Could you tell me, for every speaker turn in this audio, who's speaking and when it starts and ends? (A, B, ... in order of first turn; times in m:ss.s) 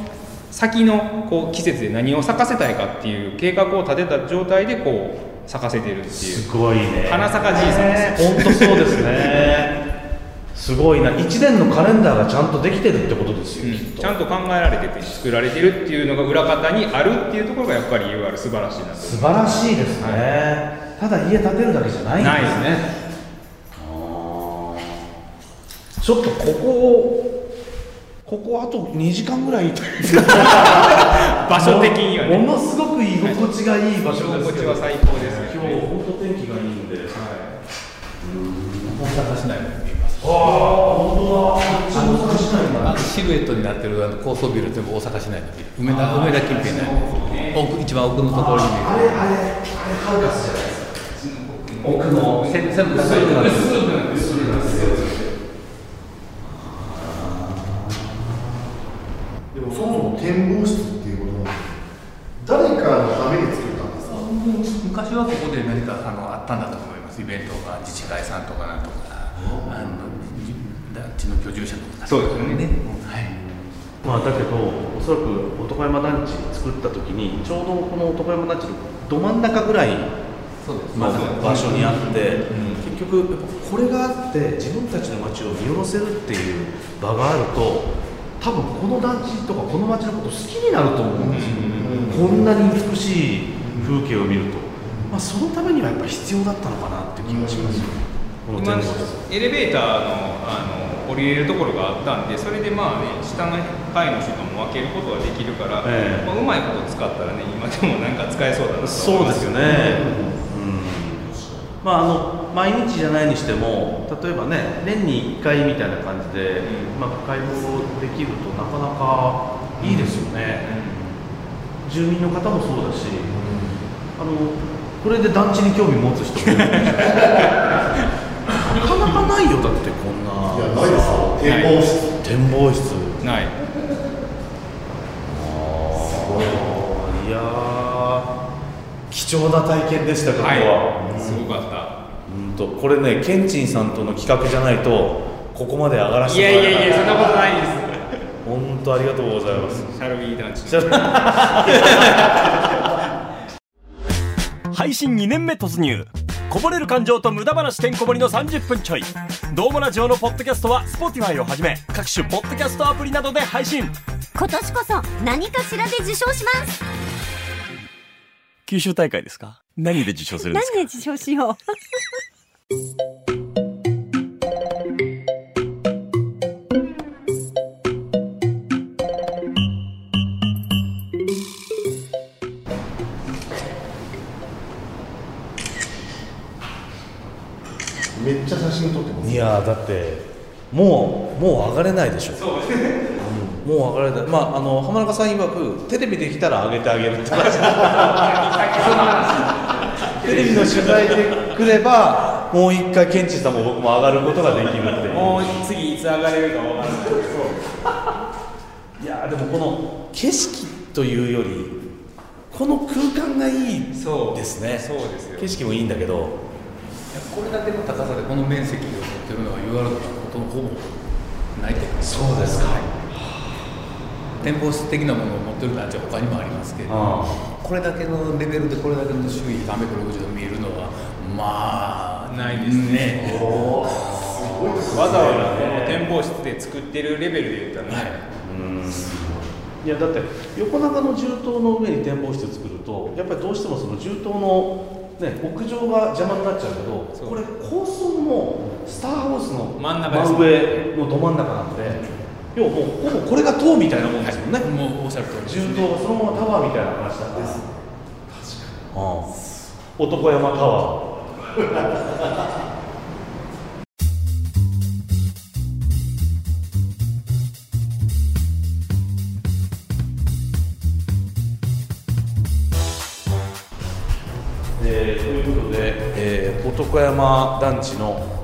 0:00.5-0:06.5 A
0:06.1-0:09.8 B
0:07.0-0:09.5 A
0:10.5-0:14.2 B
0:13.6-0:20.3 A
0:19.0-0:22.9 B
0:22.2-0:22.8 A
0:23.8-0:25.0 B
0:26.0-0:27.2 B
0:28.2-0:37.2 B
0:30.1-0:32.5 A
0:33.2-0:33.5 A
0:34.0-0:35.9 A
0:37.1-0:37.6 A
0:38.2-0:39.1 B
0:38.8-0:40.8 C
0:40.2-0:43.1 B
0:41.5-0:49.3 C
0:45.8-0:47.6 A
0:47.1-0:47.4 B
0:48.3-0:51.0 B
0:51.0-0:55.3 A
0:51.8-0:55.1 B
0:52.2-0:54.3 C
0:56.4-0:58.5 B
0:59.5-1:01.7 D
1:02.4-1:04.3 D
1:04.0-1:13.3 C
1:12.0-1:12.7 A
1:14.0-1:20.1 B
1:20.6-1:22.6 C
1:20.9-1:39.2 B
1:21.0-1:22.8 A
1:31.2-1:32.5 D
1:31.3-1:32.2 A
1:33.6-1:33.9 D
1:34.8-1:35.1 D
1:37.2-1:37.9 D
1:38.5-1:50.1 A
1:45.8-1:46.3 B
1:48.8-1:51.3 B
1:49.7-1:50.3 D
1:51.8-2:00.6 B
1:56.6-1:57.0 A
1:59.8-2:01.2 A
2:01.8-2:03.3 B
2:03.3-2:03.7 D
2:04.2-2:07.4 B
2:06.4-2:08.1 A
2:08.6-2:13.2 B
2:10.5-2:12.1 D
2:11.4-2:11.8 A
2:13.2-2:13.5 A
2:15.2-2:18.3 B
2:16.2-2:16.8 D
2:19.1-2:21.4 B
2:20.4-2:22.0 A
2:21.0-2:21.3 D
2:22.2-2:27.4 B
2:26.2-2:28.0 A
2:28.4-2:29.9 B
2:29.5-2:32.7 A
2:30.6-2:32.6 B
2:34.7-2:44.0 E
2:44.3-2:46.8 F
2:48.7-2:51.1 E
2:50.4-2:51.6 F
3:08.1-3:09.5 D
3:09.2-3:12.4 B
3:12.3-3:13.2 A
3:13.2-3:18.3 B
3:17.3-3:21.4 A
3:20.2-3:25.6 B
3:24.8-3:27.7 A
3:29.0-3:31.8 B
3:32.5-3:36.4 B
3:33.9-3:35.5 A
3:37.1-3:41.0 C
3:41.5-3:42.7 C
3:42.0-3:43.6 B
3:42.6-3:42.9 A
3:44.4-3:54.7 C
3:46.9-3:47.4 B
3:52.3-3:53.6 A
3:53.2-3:56.1 B
3:53.4-3:55.3 D
3:54.9-3:58.2 A
3:57.8-3:58.2 C
3:58.4-4:12.0 B
3:58.8-3:59.4 C
4:07.1-4:07.4 A
4:09.8-4:10.8 A
4:11.8-4:12.1 A
4:12.5-4:14.7 B
4:14.0-4:16.0 C
4:15.4-4:17.6 B
4:17.3-4:17.7 D
4:18.3-4:18.7 D
4:18.9-4:19.3 B
4:20.0-4:21.0 B
4:21.7-4:22.1 D
4:34.8-4:38.3 B